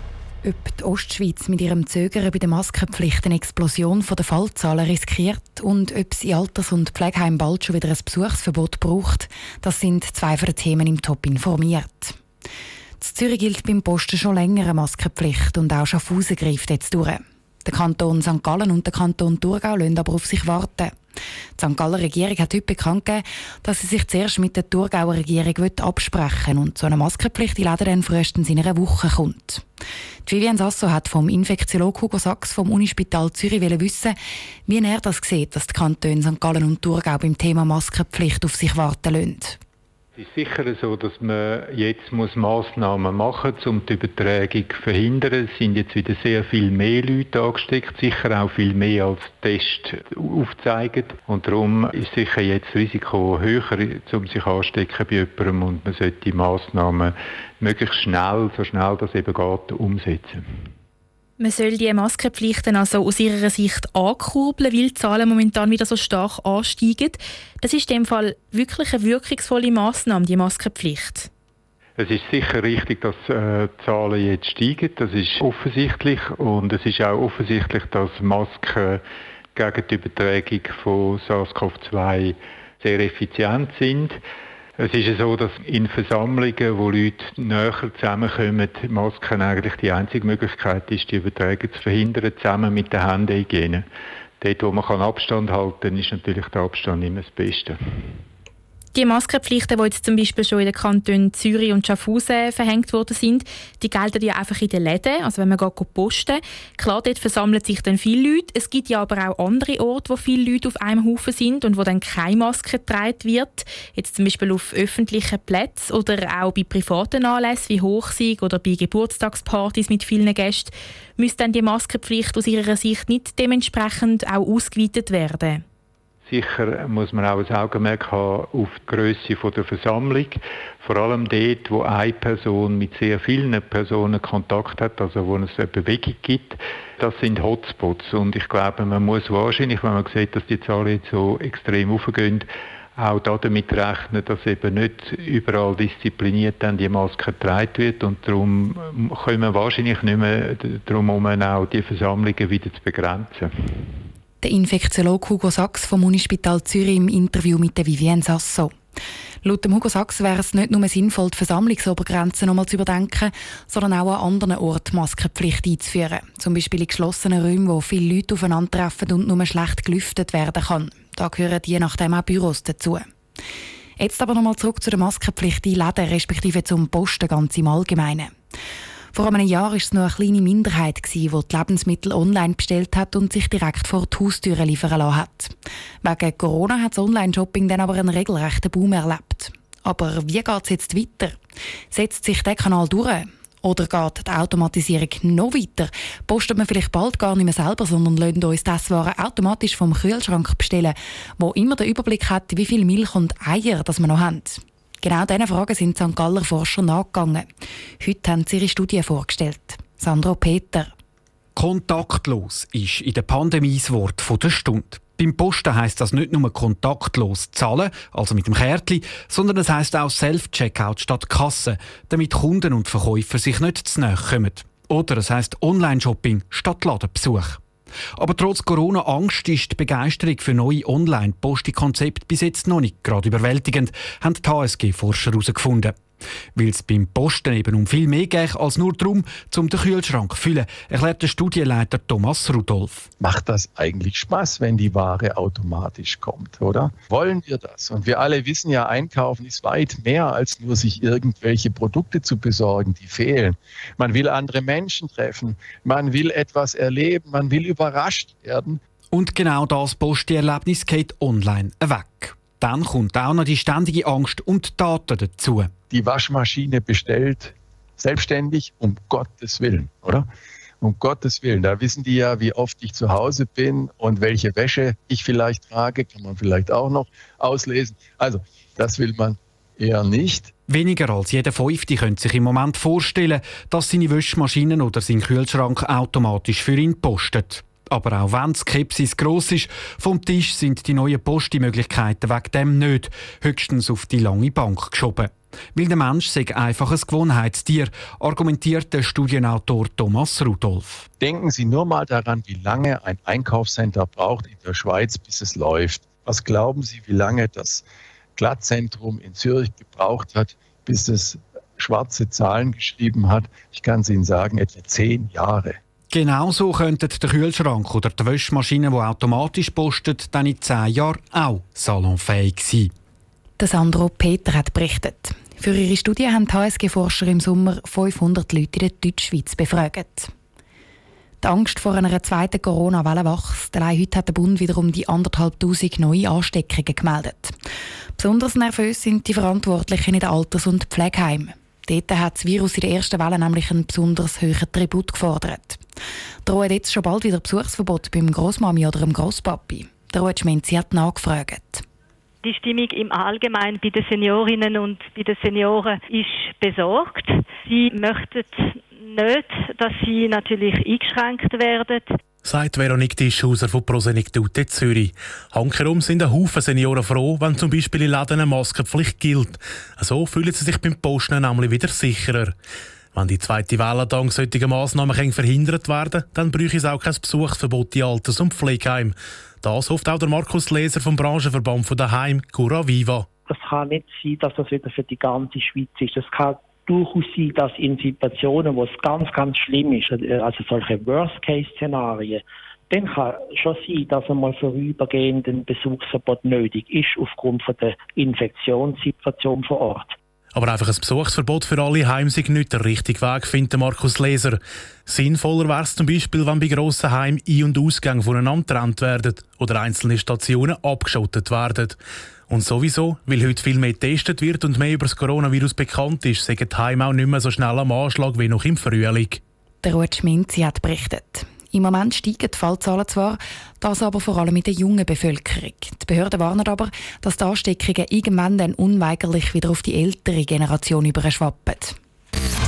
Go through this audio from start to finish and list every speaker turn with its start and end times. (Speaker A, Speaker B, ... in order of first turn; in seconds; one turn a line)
Speaker A: 0.4-12.2
Speaker A: 13.0-20.9
Speaker A: 21.6-29.6
Speaker A: 30.3-39.6
Speaker B: 40.2-60.4
Speaker C: 61.4-71.3
Speaker B: 72.0-79.0
Speaker B: 79.5-84.2
Speaker B: 84.8-93.9
Speaker B: 94.4-97.8
Speaker C: 98.9-125.6
Speaker B: 126.3-153.5
Speaker A: 154.4-158.7
Speaker A: 159.4-173.1
Speaker A: 174.0-178.3
Speaker A: 179.1-191.4
Speaker A: 191.9-207.5
Speaker A: 208.0-210.9
Speaker D: 211.6-227.6
Speaker D: 228.2-236.0
Speaker D: 236.6-243.1
Speaker E: 243.2-258.8
Speaker D: 259.1-265.7
Speaker E: 265.9-270.3
Speaker E: 270.8-280.5
Speaker D: 280.7-301.1
Speaker E: 301.2-307.9
Speaker E: 308.4-315.8
Speaker D: 316.1-322.9
Speaker A: 323.6-330.3
Speaker A: 331.4-337.6
Speaker A: 338.2-345.8
Speaker A: 346.4-351.9
Speaker F: 352.4-362.1
Speaker G: 362.4-372.5
Speaker G: 373.1-383.2
Speaker H: 383.5-400.1
Speaker G: 400.5-412.0
Speaker G: 412.5-419.4
Speaker A: 419.8-432.0